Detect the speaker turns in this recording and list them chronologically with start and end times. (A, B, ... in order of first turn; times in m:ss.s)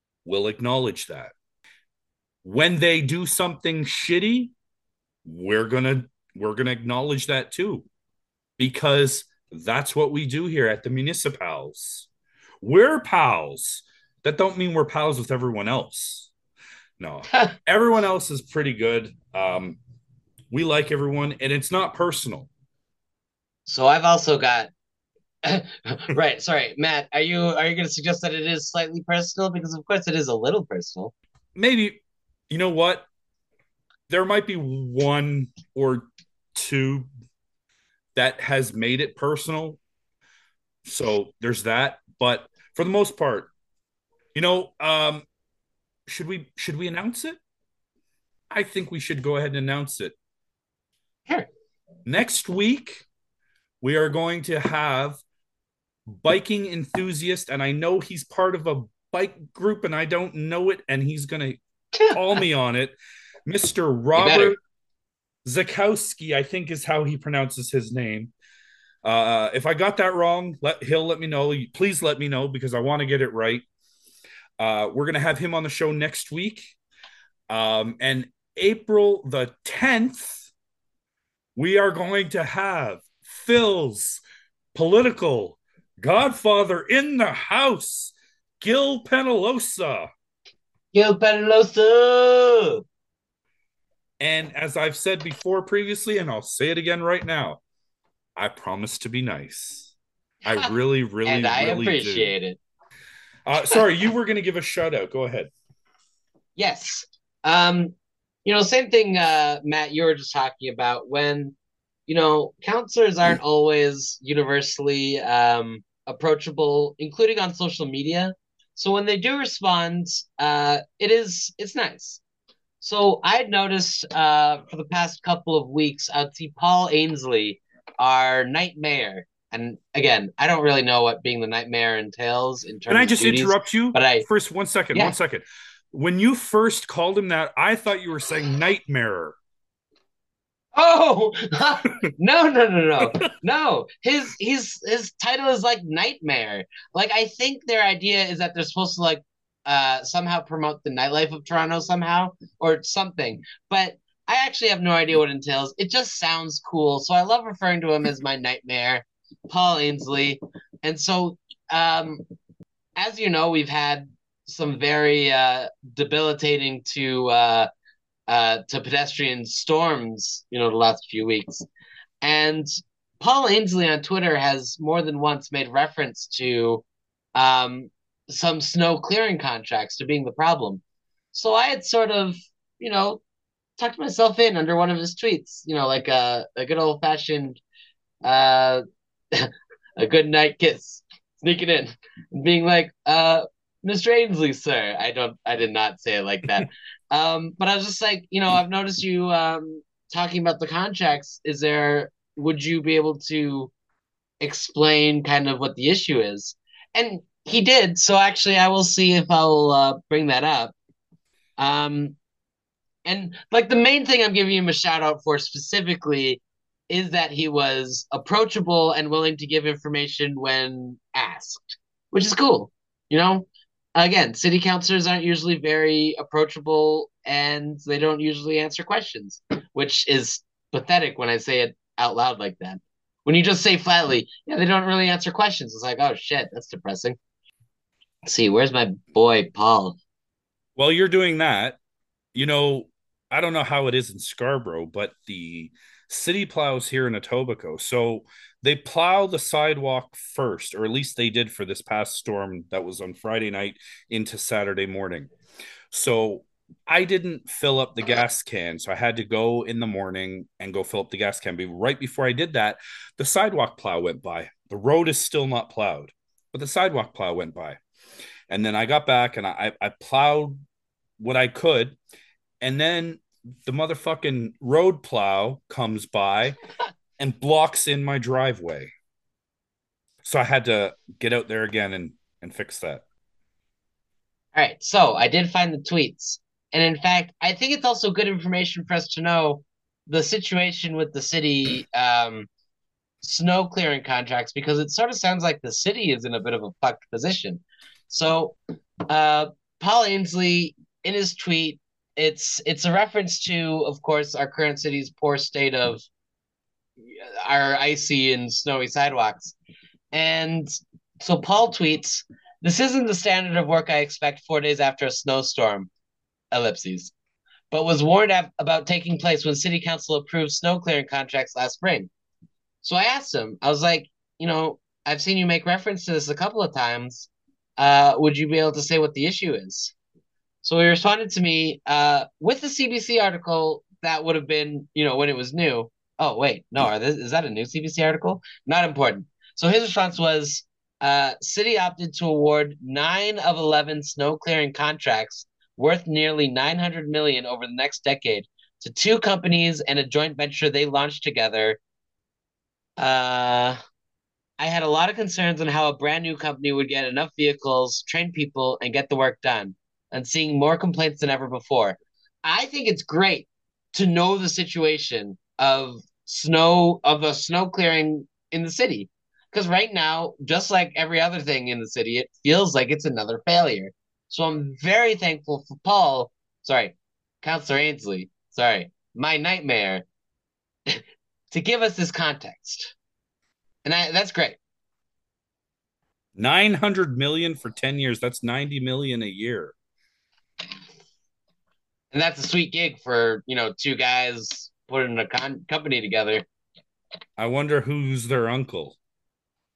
0:00.2-0:01.3 A
0:02.4-0:04.5 A
0:05.2-0:07.8 A
0:08.6-0:12.0 A
0:12.6-0:16.3 A
0:17.0-0:19.8 A
0:20.5-0:22.5 A
0:23.7-0:24.7 B
0:25.4-0:31.1 B
0:31.6-0:32.0 A
0:32.5-0:33.1 A
0:34.1-0:37.1 A
0:38.1-0:39.8 A
0:40.8-0:43.5 A
0:44.3-0:45.2 A
0:46.1-0:47.4 A
0:48.5-0:50.1 A
0:52.0-0:53.0 A
0:53.8-0:55.2 A
0:56.1-1:01.6 A
1:02.1-1:04.6 A
1:04.2-1:04.5 B
1:05.4-1:08.3 A
1:09.0-1:13.6 A
1:14.6-1:16.7 A
1:17.5-1:20.5 A
1:21.6-1:24.2 A
1:24.7-1:30.1 A
1:30.9-1:32.8 B
1:34.2-1:37.6 A
1:38.4-1:39.9 A
1:40.4-1:42.3 A
1:41.2-1:42.6 B
1:43.4-1:45.5 A
1:46.6-1:51.6 B
1:52.1-2:02.2 B
2:02.8-2:14.2 B
2:12.9-2:19.3 A
2:20.7-2:42.2 B
2:43.0-2:47.7 B
2:48.3-2:51.6 B
2:52.2-2:52.7 B
2:53.2-3:03.2 B
3:03.8-3:07.6 B
3:08.2-3:23.7 B
3:24.4-3:30.7 B
3:31.6-3:32.2 B
3:33.0-3:57.2 B
3:58.2-4:00.0 B
4:00.8-4:01.8 A
4:02.3-4:15.3 A
4:15.9-4:27.8 A
4:28.5-4:30.6 A
4:31.2-4:32.0 A
4:32.6-4:36.6 A
4:37.2-4:38.9 A
4:40.2-4:43.0 A
4:44.5-4:52.5 B
4:53.2-4:58.6 B
4:59.1-5:06.0 B
5:07.1-5:09.6 B
5:10.1-5:15.9 B
5:16.5-5:17.1 B
5:17.7-5:22.1 B
5:22.8-5:29.9 B
5:30.6-5:51.8 B
5:53.0-5:53.8 B
5:54.6-6:20.0 B
6:20.9-6:22.9 B
6:23.8-6:24.6 B
6:26.4-6:29.7 A
6:32.1-6:36.4 B
6:37.4-6:39.0 A